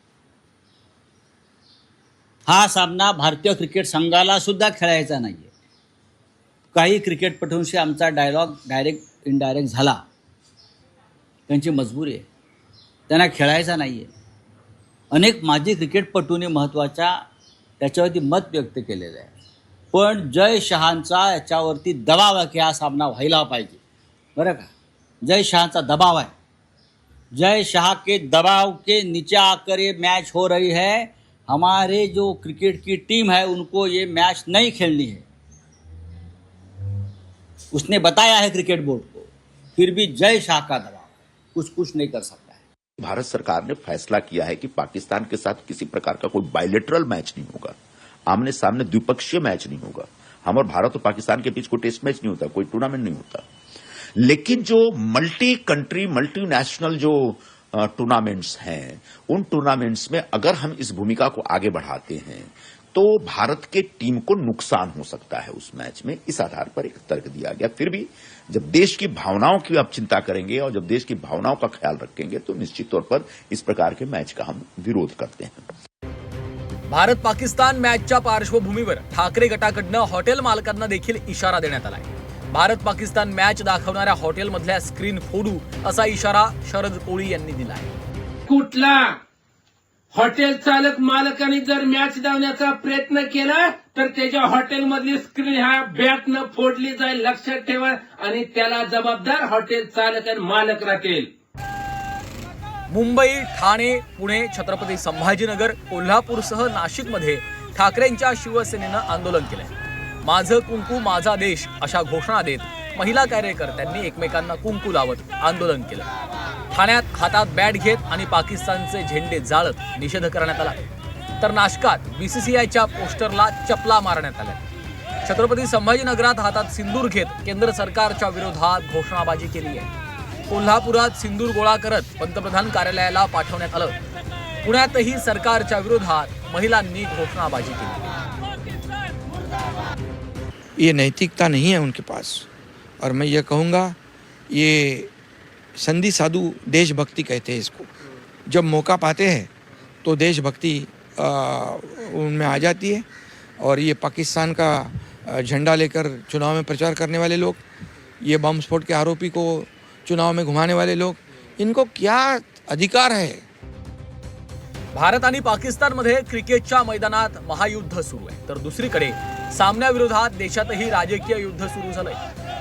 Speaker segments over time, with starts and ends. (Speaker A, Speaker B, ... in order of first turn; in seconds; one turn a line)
Speaker A: 2.5-5.5
Speaker A: 6.7-10.0
Speaker A: 11.5-12.2
Speaker A: 13.1-14.1
Speaker A: 15.1-17.1
Speaker A: 17.8-19.3
Speaker A: 19.9-23.8
Speaker A: 24.4-24.7
Speaker A: 25.2-26.3
Speaker A: 27.4-35.2
Speaker A: 37.8-42.5
Speaker B: 43.0-47.7
Speaker B: 48.3-53.4
Speaker B: 54.2-75.6
Speaker C: 76.9-87.9
Speaker D: 88.5-89.2
Speaker D: 90.1-101.3
Speaker C: 102.9-116.1
Speaker C: 116.7-120.8
Speaker C: 121.4-124.6
Speaker C: 125.2-129.9
Speaker C: 130.5-133.9
Speaker C: 134.6-138.1
Speaker E: 140.8-142.5
Speaker E: 143.0-143.9
Speaker E: 144.5-145.1
Speaker E: 145.8-147.9
Speaker E: 148.5-149.5
Speaker E: 150.0-153.0
Speaker E: 153.6-157.6
Speaker E: 158.2-163.4
Speaker C: 164.9-172.2